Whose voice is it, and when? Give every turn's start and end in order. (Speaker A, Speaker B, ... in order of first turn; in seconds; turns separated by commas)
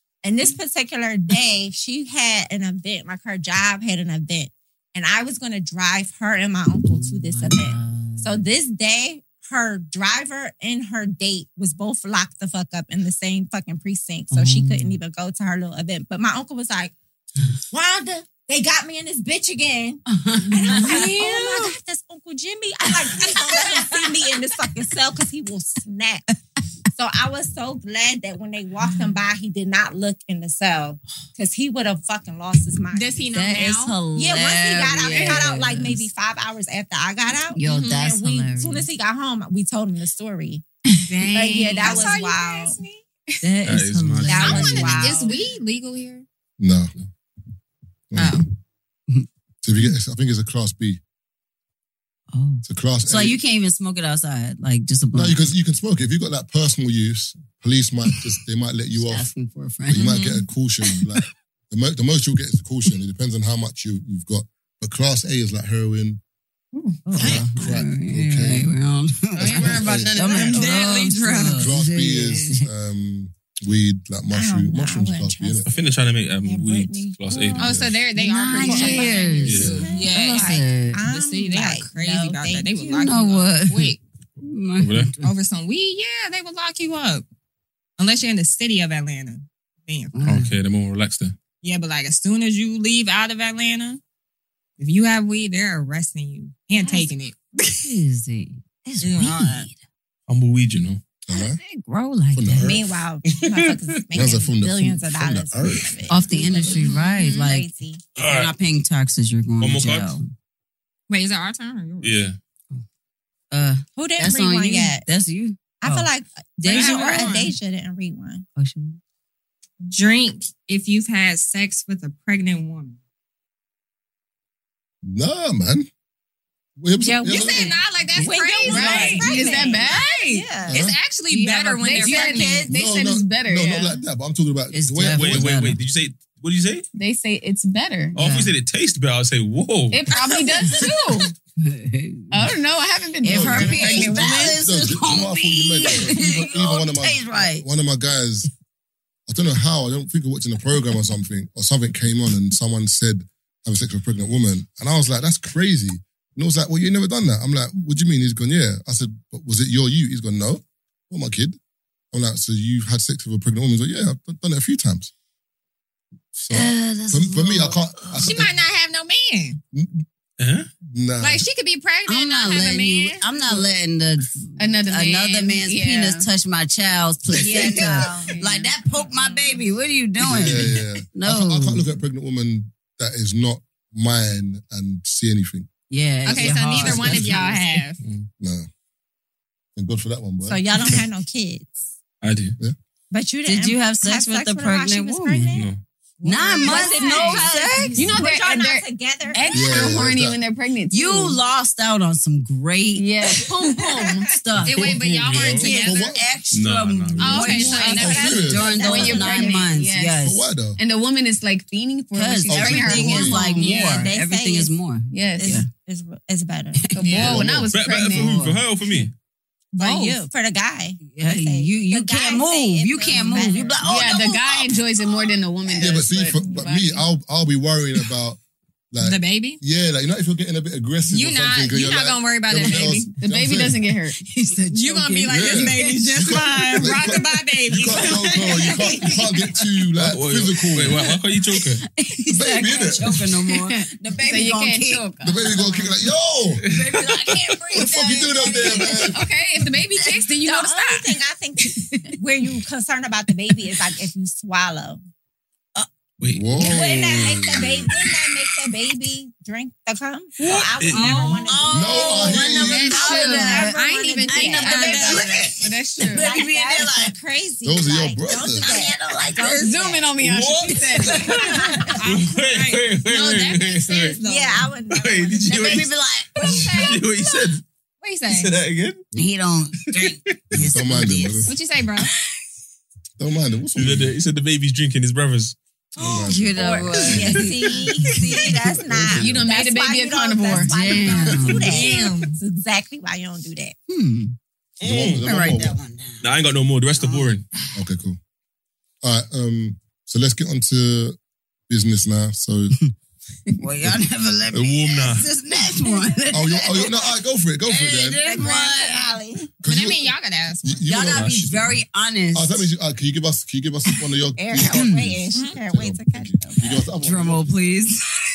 Speaker A: 0.2-16.9, Speaker B: 6.8-8.4, Speaker B: 14.3-15.0, Speaker A: 17.7-26.2, Speaker B: 20.1-21.7, Speaker B: 23.1-23.6, Speaker A: 26.9-33.2, Speaker C: 32.9-34.0, Speaker B: 33.3-36.1, Speaker A: 34.1-40.6, Speaker D: 35.1-35.4, Speaker B: 37.5-38.9, Speaker C: 41.1-43.0, Speaker A: 41.3-42.8, Speaker B: 43.4-45.1, Speaker E: 43.6-45.0, Speaker A: 44.3-45.4, Speaker C: 44.5-46.3, Speaker F: 46.6-46.9, Speaker F: 48.1-48.5, Speaker C: 48.2-48.5, Speaker F: 49.6-51.0, Speaker B: 52.3-55.4, Speaker F: 52.6-53.4, Speaker F: 55.1-59.3, Speaker B: 59.0-60.3, Speaker F: 59.9-66.2, Speaker C: 60.0-60.4, Speaker B: 60.9-61.2, Speaker A: 67.1-67.4, Speaker B: 67.1-72.7, Speaker F: 67.2-68.7, Speaker D: 69.4-71.1, Speaker F: 69.5-70.5, Speaker C: 70.5-71.5, Speaker F: 71.5-75.7, Speaker A: 74.3-75.9, Speaker E: 75.7-77.9, Speaker A: 76.4-77.6, Speaker C: 77.6-84.0, Speaker B: 78.2-81.0, Speaker A: 78.5-82.8, Speaker E: 79.4-79.9, Speaker B: 82.8-85.3, Speaker E: 84.8-85.1, Speaker C: 85.2-87.2, Speaker C: 88.0-90.2, Speaker B: 90.2-90.5, Speaker E: 90.2-91.3, Speaker C: 91.6-94.0, Speaker C: 94.8-97.4, Speaker B: 97.7-99.8, Speaker C: 99.0-99.7, Speaker E: 100.3-101.0, Speaker F: 101.3-101.6, Speaker B: 101.3-102.8, Speaker F: 102.3-102.8, Speaker A: 102.6-108.0, Speaker E: 103.3-104.0, Speaker F: 104.1-105.9, Speaker B: 106.1-110.3, Speaker C: 106.7-107.1, Speaker E: 108.2-108.5, Speaker E: 109.6-110.2, Speaker C: 111.1-112.2, Speaker E: 112.0-112.4, Speaker B: 113.5-116.1, Speaker A: 113.9-115.1, Speaker A: 115.8-118.5, Speaker B: 116.6-117.2, Speaker C: 116.7-117.5, Speaker B: 118.6-119.0, Speaker C: 119.9-123.0, Speaker F: 125.0-125.9, Speaker F: 126.8-127.8, Speaker A: 127.1-130.8, Speaker C: 127.1-132.7, Speaker D: 128.7-130.2, Speaker F: 130.7-131.0, Speaker D: 131.3-134.0, Speaker B: 132.2-132.6, Speaker F: 132.7-135.7, Speaker B: 134.7-135.8, Speaker E: 135.1-136.9, Speaker D: 136.9-138.2, Speaker B: 138.2-138.6, Speaker E: 138.2-140.1, Speaker D: 139.9-141.3, Speaker B: 140.2-142.5, Speaker D: 142.3-144.6, Speaker B: 143.2-147.7, Speaker F: 143.3-148.5, Speaker F: 149.3-161.6, Speaker F: 162.1-165.1, Speaker F: 166.3-168.5, Speaker B: 166.5-168.3, Speaker C: 168.2-169.6, Speaker F: 169.7-170.1, Speaker E: 170.4-170.7, Speaker F: 170.9-171.5, Speaker C: 171.2-173.3, Speaker B: 172.1-181.9, Speaker D: 174.6-176.3, Speaker A: 177.4-178.4, Speaker D: 177.5-178.7, Speaker F: 180.2-185.7, Speaker B: 185.9-187.8, Speaker C: 186.2-188.0, Speaker F: 186.4-187.4, Speaker E: 188.0-188.3, Speaker F: 188.4-188.7, Speaker F: 189.8-191.0, Speaker A: 190.4-191.8, Speaker E: 192.2-192.6, Speaker A: 193.1-195.7, Speaker B: 193.4-195.6, Speaker E: 195.5-195.8, Speaker C: 196.2-197.5, Speaker B: 196.2-198.2, Speaker D: 196.6-201.4, Speaker A: 196.6-200.1, Speaker F: 199.5-200.4, Speaker B: 200.9-205.0, Speaker D: 203.0-204.3, Speaker C: 204.6-206.2, Speaker E: 204.8-205.7, Speaker A: 205.5-206.0, Speaker B: 205.7-210.4, Speaker F: 205.8-206.2, Speaker E: 206.5-207.6, Speaker C: 207.2-208.5, Speaker D: 207.3-208.0, Speaker A: 207.7-209.7, Speaker F: 208.0-208.9, Speaker D: 208.8-210.2, Speaker F: 210.2-210.8, Speaker D: 210.8-213.9, Speaker B: 212.1-215.7, Speaker F: 212.5-213.5, Speaker A: 213.5-214.8, Speaker D: 215.1-215.6, Speaker A: 215.4-216.8, Speaker B: 216.8-217.4, Speaker D: 217.0-218.4, Speaker C: 217.0-217.3, Speaker F: 217.2-217.7, Speaker E: 217.7-219.1, Speaker B: 218.2-219.0, Speaker C: 219.7-220.2, Speaker A: 219.8-223.8, Speaker B: 221.0-225.3, Speaker D: 223.8-227.1, Speaker F: 225.8-228.4, Speaker F: 228.9-233.8, Speaker C: 229.0-229.6, Speaker C: 231.1-233.1, Speaker D: 232.8-234.2, Speaker B: 234.2-237.1, Speaker C: 234.7-238.7, Speaker F: 235.3-241.1, Speaker B: 237.8-239.6, Speaker E: 240.0-241.8, Speaker B: 240.8-245.1, Speaker F: 242.3-243.2, Speaker D: 243.4-245.9, Speaker F: 245.2-246.7, Speaker E: 246.7-247.6, Speaker B: 246.7-249.2, Speaker F: 247.7-249.3, Speaker D: 248.8-251.2, Speaker B: 249.9-250.3, Speaker A: 250.5-255.0, Speaker B: 251.7-251.9, Speaker B: 253.5-253.8, Speaker E: 256.2-257.8, Speaker F: 256.3-257.8, Speaker A: 256.6-265.4, Speaker B: 256.6-257.4, Speaker E: 260.4-261.4, Speaker C: 260.9-261.5, Speaker B: 261.4-267.1, Speaker F: 261.7-262.9, Speaker C: 262.6-265.3, Speaker D: 262.7-263.7, Speaker D: 264.4-266.3, Speaker A: 266.1-270.0, Speaker F: 267.6-268.8, Speaker B: 268.3-270.0, Speaker D: 269.6-271.7, Speaker E: 270.2-274.2, Speaker B: 270.9-271.8, Speaker A: 271.3-271.9, Speaker C: 272.0-274.7, Speaker A: 274.2-275.8, Speaker E: 274.9-277.6, Speaker B: 275.5-277.0, Speaker A: 276.5-277.0, Speaker C: 278.0-278.5, Speaker E: 278.3-279.0, Speaker B: 279.2-281.5, Speaker E: 279.9-280.4, Speaker F: 280.5-281.5, Speaker C: 281.5-282.1, Speaker F: 283.2-284.1, Speaker E: 283.8-286.3, Speaker F: 286.0-287.4, Speaker B: 286.0-288.9, Speaker A: 286.6-293.8, Speaker F: 288.9-289.4, Speaker D: 289.1-291.4, Speaker B: 290.5-291.9, Speaker C: 291.6-292.4, Speaker B: 293.9-294.4, Speaker E: 294.8-295.2, Speaker F: 294.8-295.8, Speaker B: 295.1-296.3, Speaker E: 296.2-297.4, Speaker B: 297.0-297.8, Speaker F: 297.8-298.2, Speaker F: 299.0-301.2, Speaker F: 301.7-302.8, Speaker B: 303.6-307.1, Speaker E: 304.5-305.3, Speaker F: 306.3-308.3, Speaker B: 307.7-309.2, Speaker A: 308.2-309.5, Speaker F: 309.6-310.1, Speaker C: 309.7-310.9, Speaker F: 310.6-311.8, Speaker B: 310.9-312.6, Speaker E: 311.1-311.5, Speaker F: 312.3-317.6, Speaker A: 314.4-316.8, Speaker B: 314.5-315.1, Speaker B: 316.9-318.1